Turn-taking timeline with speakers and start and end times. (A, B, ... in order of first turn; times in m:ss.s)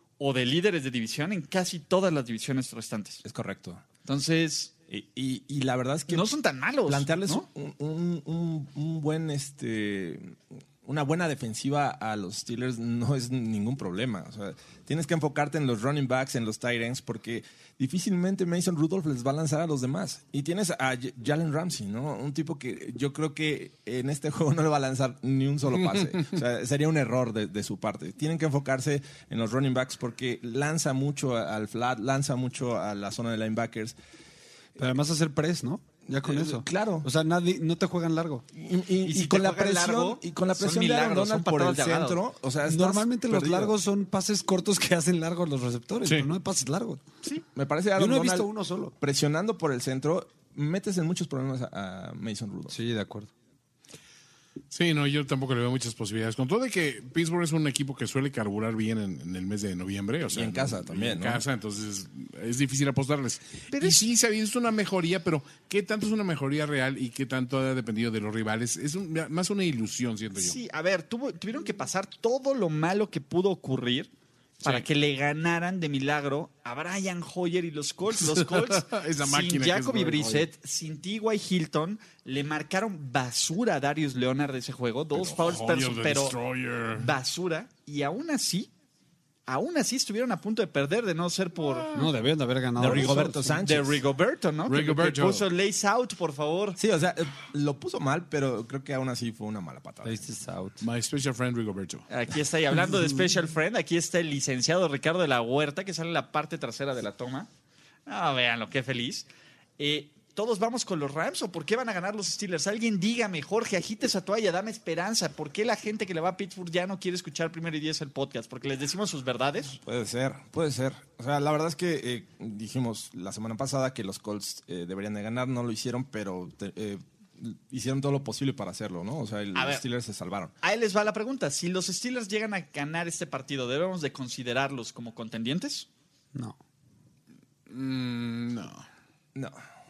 0:00.2-0:03.2 A
0:03.2-0:03.8 B
0:04.0-0:04.7 A
0:04.9-0:06.3 B
0:06.1-0:07.4 A
0:06.9-0:34.0 B
0:34.8-0:38.4 C
0:36.1-0:37.1 B
0:38.5-0:43.8 B
0:39.0-0:42.2 A
0:42.7-0:47.0 C
0:46.0-0:46.3 D
0:47.5-0:52.8 B
0:48.0-0:48.9 C
0:52.7-0:53.3 C
0:54.7-1:10.6 D
1:00.3-1:01.4 B
1:03.7-1:04.1 A
1:10.4-1:14.1 A
1:14.6-1:26.4 A
1:18.2-1:20.5 D
1:25.2-1:27.1 D
1:26.9-1:28.7 A
1:29.5-1:32.0 A
1:31.7-1:32.1 D
1:31.9-1:33.6 C
1:32.8-1:34.0 B
1:33.6-1:36.8 A
1:34.7-1:35.5 D
1:36.8-1:40.2 B
1:40.0-1:40.8 C
1:40.8-1:42.1 D
1:42.1-1:47.5 A
1:48.1-1:49.3 A
1:49.8-1:59.8 A
1:59.8-2:10.5 B
2:09.6-2:09.8 A
2:10.6-2:15.9 A
2:17.7-2:18.8 D
2:19.4-2:19.6 B